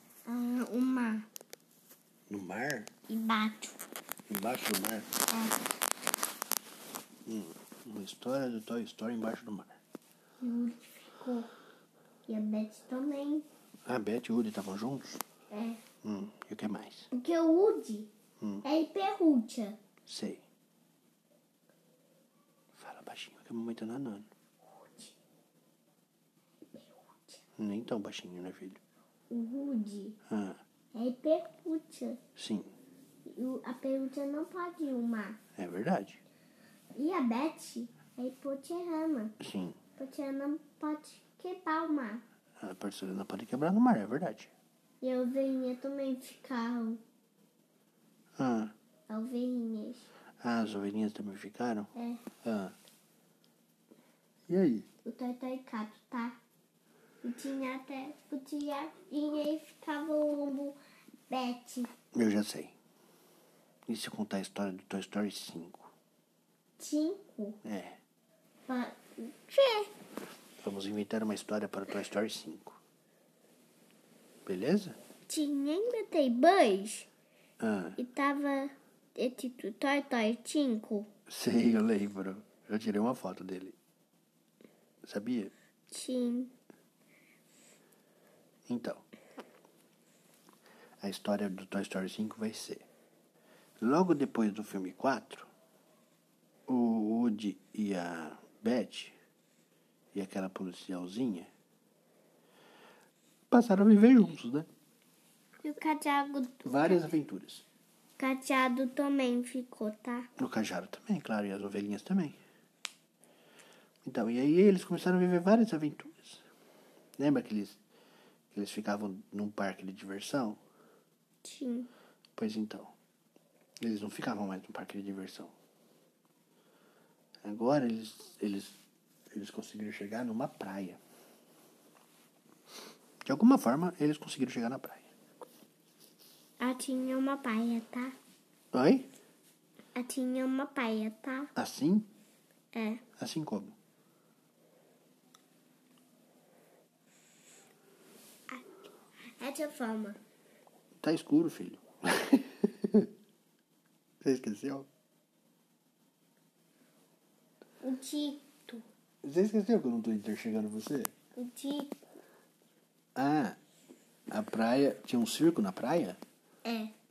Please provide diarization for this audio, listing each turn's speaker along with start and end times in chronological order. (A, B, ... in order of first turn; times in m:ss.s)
0:00.3-0:01.3 A
0:02.3-0:02.9 B
0:03.1-0:03.8 A
0:04.3-0:05.1 B
0:05.3-0:05.6 A
0:07.3-0:09.8 B
0:10.4-0:11.5 A
0:12.3-0:13.5 A
0:13.9-0:15.2 B
0:15.5-0:15.8 A
0:16.0-0:17.1 B
0:17.1-0:18.1 A
0:18.4-0:18.6 B
0:18.6-0:19.8 A
0:20.1-0:20.4 B
0:22.8-0:24.3 B
0:24.7-0:25.2 A
0:26.7-0:27.4 A
0:27.6-0:28.8 B
0:29.3-0:30.2 A
0:30.3-0:30.6 B
0:30.9-0:32.2 A
0:32.4-0:32.7 B
0:33.2-0:35.4 A
0:35.6-0:36.2 B
0:37.0-0:39.3 A
0:39.4-0:39.8 B
0:40.0-0:42.2 A
0:42.6-0:44.5 B
0:45.0-0:47.0 A
0:48.4-0:48.7 B
0:49.1-0:50.1 A
0:50.4-0:51.9 B
0:52.0-0:52.2 A
0:52.4-0:52.8 B
0:54.5-0:54.9 B
0:55.0-0:56.4 A
0:57.2-1:01.9 A
1:02.1-1:02.8 B
1:03.9-1:05.9 B
1:06.8-1:07.6 A
1:07.6-1:08.0 B
1:08.7-1:09.9 A
1:10.6-1:12.8 B
1:14.5-1:15.0 B
1:15.3-1:17.1 A
1:17.6-1:18.0 B
1:18.0-1:21.1 A
1:21.3-1:23.8 B
1:25.0-1:25.5 B
1:25.9-1:26.5 A
1:28.7-1:29.0 B
1:31.0-1:32.9 B
1:33.8-1:35.5 B
1:36.7-1:39.2 B
1:40.1-1:41.5 B
1:43.5-1:44.7 B
1:45.6-1:47.0 A
1:46.6-1:47.6 B
1:48.2-1:50.3 A
1:50.4-1:52.4 B
1:54.0-1:56.4 B
1:57.2-1:57.8 B
1:58.5-2:00.6 B
2:01.4-2:01.9 A
2:02.4-2:02.9 B
2:03.8-2:05.5 B
2:07.4-2:08.8 B
2:09.3-2:11.0 B
2:13.2-2:15.1 B
2:16.6-2:18.2 A
2:18.7-2:19.1 B
2:20.0-2:21.5 A
2:21.6-2:22.1 B
2:22.7-2:23.0 A
2:23.2-2:23.8 B
2:29.4-2:30.2 A
2:31.0-2:33.1 B
2:34.2-2:34.9 B
2:37.8-2:38.8 A
2:39.2-2:41.1 B
2:41.4-2:42.0 A
2:43.2-2:43.6 B
2:44.3-2:46.2 B
2:46.6-2:46.9 A